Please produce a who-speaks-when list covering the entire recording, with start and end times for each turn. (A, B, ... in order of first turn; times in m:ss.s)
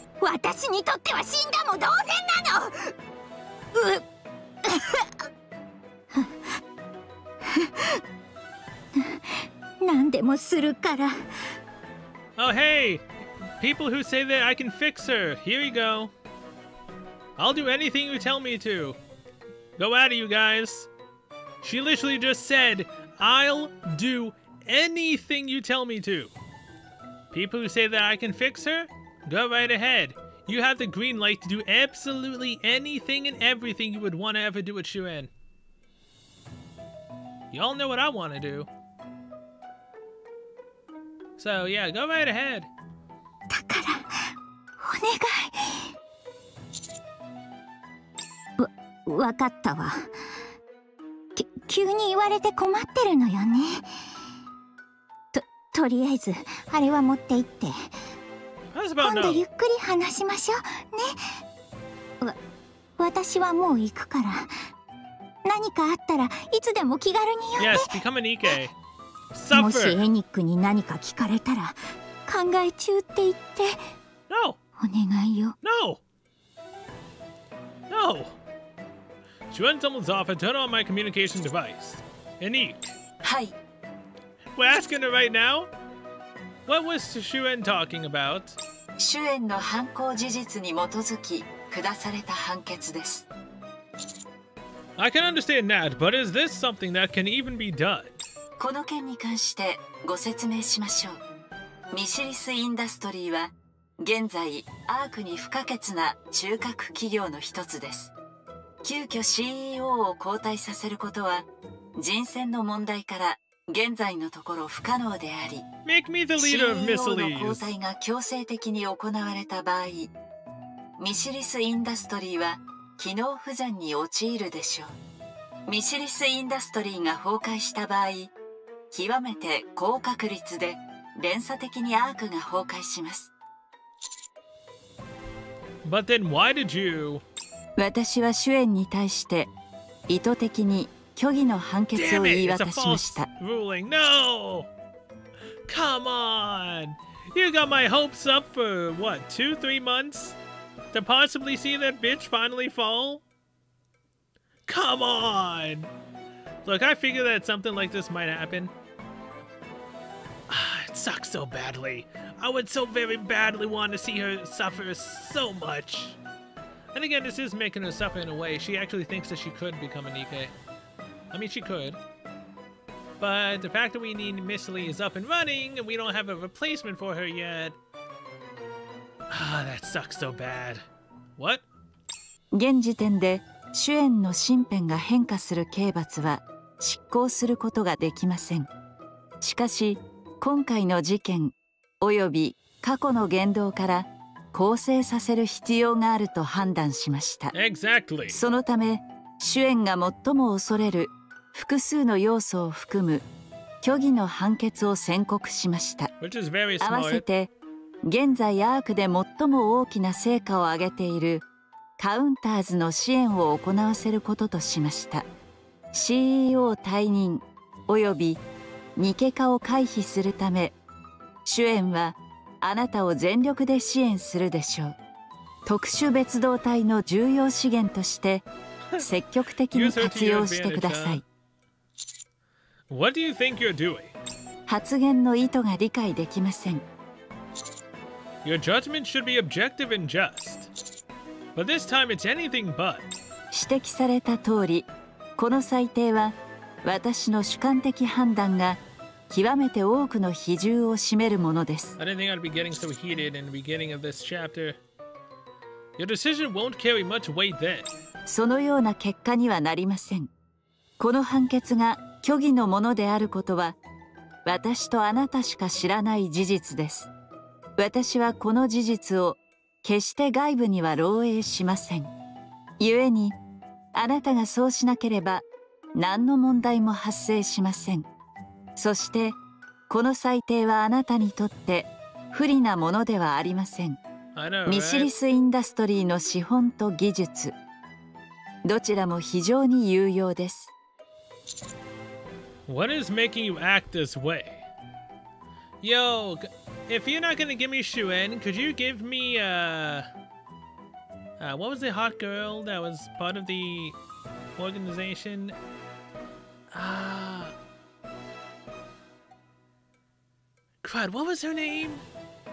0:00.2-0:02.9 A
0:03.7-0:04.0 A
0:04.6-0:05.1 A
0:06.1-0:06.4 A
0:07.4-0:08.0 A
0:09.0-0:11.3 A
0:12.4-0:13.1 B
0:13.6-0:16.1 B
0:17.4-0:19.0 B
0:19.8-0:20.9 B
0:21.6-0:26.3 B
0:27.3-0:35.3 B
0:37.5-0:38.7 B
0:41.4-0:42.7 B
0:43.5-0:45.9 A
0:48.6-0:50.1 A
0:51.4-0:53.9 A
0:55.3-0:57.9 A
0:58.7-0:59.5 B
0:59.0-1:01.3 A
1:03.0-1:04.5 A
1:05.4-1:07.9 A
1:07.6-1:08.8 B
1:09.3-1:10.0 B
1:09.5-1:13.8 A
1:14.3-1:14.6 B
1:14.8-1:15.6 A
1:15.6-1:16.0 B
1:17.9-1:18.4 B
1:19.5-1:22.9 B
1:23.2-1:23.6 C
1:24.6-1:25.7 B
1:26.7-1:28.6 B
1:29.0-1:33.3 C
1:35.0-1:38.2 B
1:38.6-1:41.2 C
1:41.9-1:48.1 C
1:48.8-1:55.7 C
1:55.9-1:57.7 B
1:56.4-2:00.1 C
2:01.0-2:05.0 C
2:05.7-2:08.3 C
2:08.9-2:13.3 C
2:15.8-2:17.2 B
2:17.8-2:19.5 C
2:20.1-2:23.3 C
2:21.9-2:24.7 B
2:25.7-2:30.4 B
2:30.9-2:33.2 B
2:34.7-2:35.9 B
2:36.6-2:38.7 B
2:40.5-2:46.2 B
2:46.9-2:50.5 B
2:51.3-2:52.0 B
2:53.2-2:57.8 B
2:59.3-3:00.9 B
3:01.4-3:01.6 B
3:02.5-3:08.7 C
3:09.4-3:17.5 C
3:17.5-3:18.4 B
3:18.3-3:23.3 C
3:23.8-3:26.1 C
3:26.2-3:27.2 B
3:26.8-3:27.5 C
3:28.0-3:31.4 C
3:32.0-3:35.3 C
3:35.9-3:38.4 C
3:39.0-3:40.7 C
3:41.4-3:45.0 C
3:45.7-3:48.5 C
3:49.0-3:51.2 C
3:49.7-3:51.2 B
3:52.9-3:54.2 B
3:54.7-3:56.8 C
3:58.4-4:00.7 B
4:01.6-4:03.1 B
4:03.5-4:12.0 C
4:12.0-4:14.8 B
4:16.0-4:17.9 B
4:18.3-4:20.3 C
4:21.0-4:23.8 C
4:24.4-4:27.1 C
4:27.8-4:32.1 C
4:32.8-4:33.4 C
4:33.9-4:35.4 C
4:36.0-4:38.1 C
4:38.8-4:39.4 C
4:39.9-4:44.0 C
4:44.4-4:45.1 B
4:44.7-4:47.5 C
4:48.6-4:50.7 C
4:52.7-4:54.7 B
4:55.8-5:00.1 B
5:01.4-5:04.0 B
5:04.6-5:05.6 B
5:06.7-5:07.6 B
5:10.8-5:12.0 B